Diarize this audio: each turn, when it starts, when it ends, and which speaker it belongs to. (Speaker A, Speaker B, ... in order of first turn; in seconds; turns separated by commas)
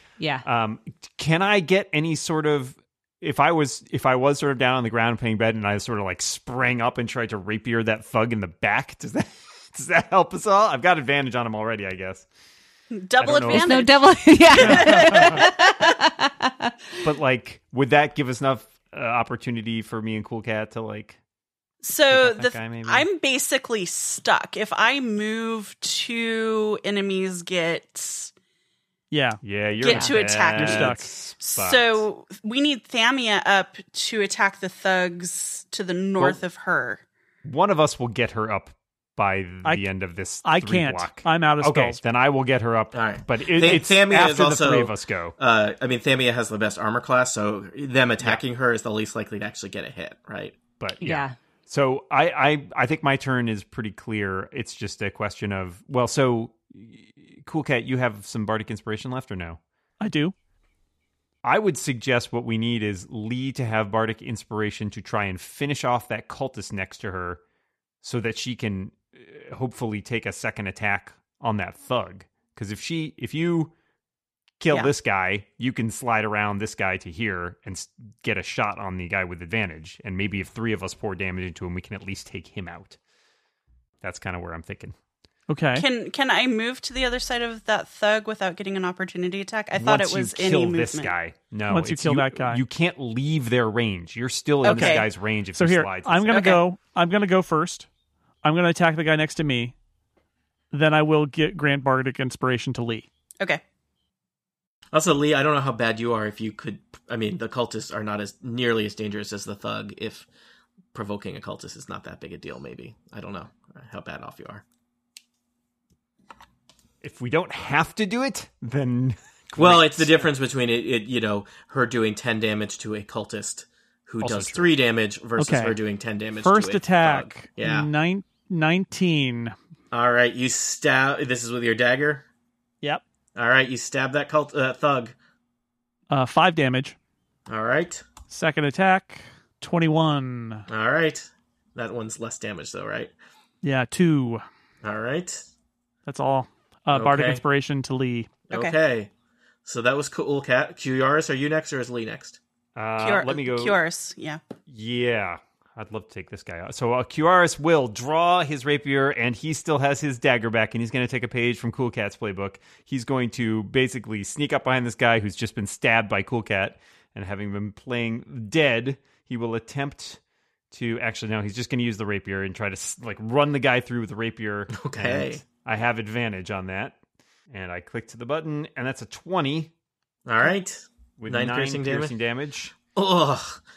Speaker A: 0.2-0.4, Speaker B: 0.4-12.2, Speaker C: 12.9-15.5, Speaker B: 13.2-13.9, Speaker A: 13.5-16.7, Speaker B: 14.5-15.4, Speaker B: 17.0-21.2, Speaker C: 21.8-28.3, Speaker B: 22.1-23.1, Speaker D: 29.1-29.4, Speaker B: 29.4-32.0, Speaker C: 29.8-37.0, Speaker D: 30.5-31.1, Speaker B: 37.4-45.3, Speaker D: 40.4-42.0, Speaker E: 42.9-50.6, Speaker B: 50.8-59.6, Speaker A: 51.0-51.4, Speaker D: 60.0-60.3, Speaker B: 61.4-67.4, Speaker B: 68.0-73.7, Speaker B: 74.6-83.0, Speaker B: 84.0-84.9, Speaker D: 85.5-85.8, Speaker C: 85.7-91.1, Speaker B: 89.7-96.5, Speaker D: 91.7-92.6, Speaker C: 94.6-95.0, Speaker D: 94.6-97.9, Speaker C: 96.3-96.6, Speaker D: 98.4-99.7, Speaker D: 100.7-103.0, Speaker E: 104.9-110.2, Speaker E: 110.9-114.6, Speaker B: 117.0-120.3, Speaker E: 119.6-127.9, Speaker B: 124.2-124.7, Speaker D: 125.4-125.8, Speaker D: 126.4-129.5, Speaker E: 129.9-132.2, Speaker E: 133.3-135.1, Speaker D: 136.1-136.9, Speaker E: 137.5-138.0, Speaker D: 138.3-140.7, Speaker E: 140.7-143.1, Speaker D: 143.6-144.4, Speaker E: 144.8-145.4, Speaker D: 146.1-148.3, Speaker E: 146.9-147.4, Speaker E: 148.5-149.1, Speaker E: 149.6-152.4, Speaker B: 152.7-153.8, Speaker C: 153.0-154.4, Speaker B: 154.7-170.2, Speaker B: 170.7-177.0, Speaker E: 174.7-175.4, Speaker B: 177.5-179.7, Speaker E: 180.2-182.1, Speaker B: 181.2-182.7, Speaker E: 182.9-183.6